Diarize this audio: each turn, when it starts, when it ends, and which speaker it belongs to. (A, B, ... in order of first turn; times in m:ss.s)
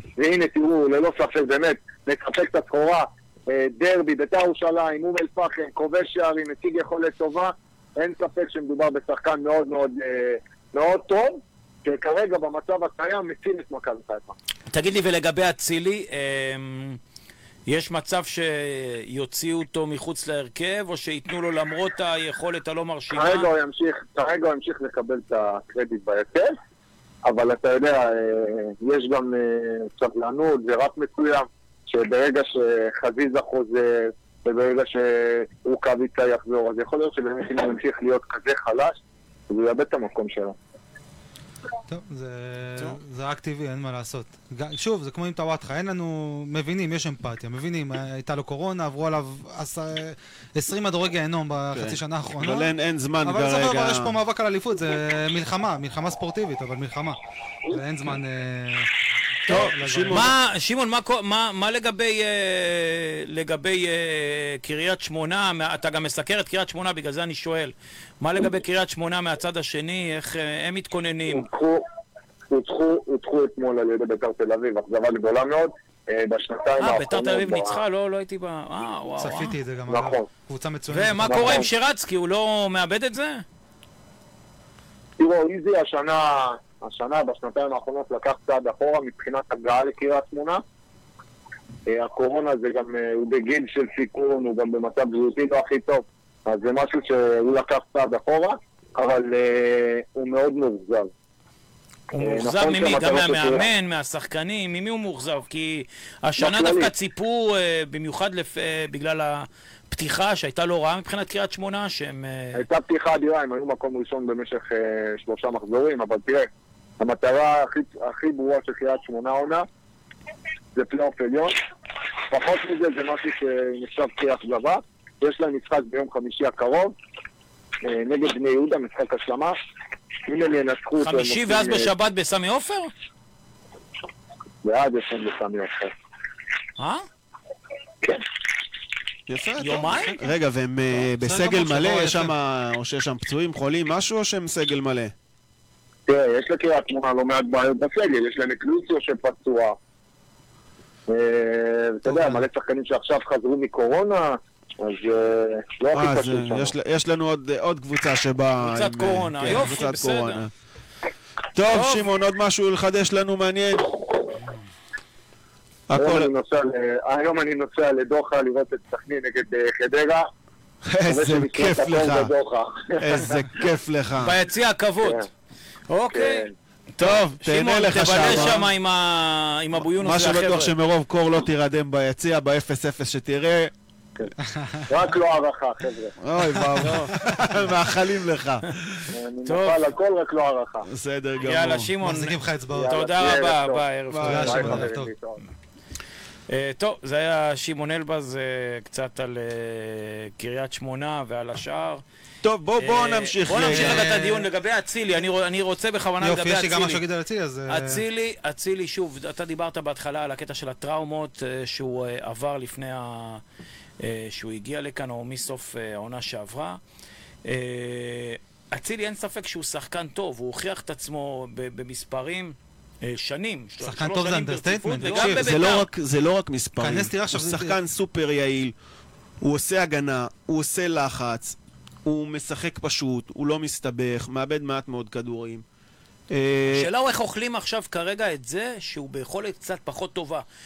0:00.2-0:14.3 A
0:14.7-0:17.0 B
0:17.7-0:23.5 B
0:23.1-0:26.5 A
0:27.2-0:39.0 A
0:39.5-0:40.6 A
0:41.9-0:52.7 C
0:51.7-0:54.2 D
0:53.2-0:57.2 C
0:57.7-0:58.9 C
0:59.5-1:00.3 C
0:59.5-1:00.3 D
1:00.1-1:11.5 B
1:11.3-1:11.8 A
1:12.5-1:17.8 A
1:16.8-1:19.6 B
1:19.2-1:21.7 C
1:19.9-1:20.3 A
1:20.9-1:23.4 B
1:21.2-1:21.7 A
1:25.2-1:30.6 A
1:31.9-1:41.1 A
1:42.1-1:52.6 B
1:42.2-1:43.7 A
1:46.4-1:46.9 A
1:52.6-1:56.5 A
1:57.0-1:59.7 A
2:00.8-2:01.6 A
2:02.3-2:06.9 A
2:07.8-2:09.6 A
2:10.3-2:11.9 A
2:11.0-2:12.9 B
2:14.6-2:15.9 A
2:16.8-2:17.0 B
2:19.3-2:25.1 D
2:19.6-2:20.2 B
2:21.0-2:22.3 C
2:26.1-2:29.8 A
2:31.1-2:36.7 A
2:32.1-2:32.4 C
2:35.9-2:40.5 D
2:38.6-2:40.4 B
2:41.5-2:44.0 D
2:41.7-2:42.1 B
2:45.9-2:46.3 D
2:46.0-2:50.3 A
2:50.8-2:52.3 D
2:51.1-2:53.4 A
2:53.0-2:54.4 D
2:54.2-2:55.3 B
2:55.9-3:00.7 B
2:56.1-2:56.5 A
2:57.0-2:58.7 D
2:59.8-3:03.7 D
3:04.9-3:06.2 A
3:06.2-3:09.1 D
3:06.8-3:07.2 B
3:09.1-3:10.9 A
3:09.5-3:09.8 B
3:10.8-3:11.9 D
3:11.4-3:14.8 B
3:12.0-3:13.0 C
3:12.7-3:15.4 A
3:14.1-3:14.7 D
3:14.2-3:15.1 C
3:16.5-3:22.0 B
3:22.4-3:24.1 D
3:22.8-3:27.0 B
3:23.6-3:24.5 C
3:26.2-3:28.0 C
3:27.7-3:33.4 B
3:34.0-3:36.8 B
3:37.4-3:45.9 B
3:43.8-3:45.6 C
3:45.0-3:48.7 D
3:46.8-3:47.8 C
3:49.4-3:55.6 D
3:56.3-3:56.9 D
3:56.7-4:00.4 B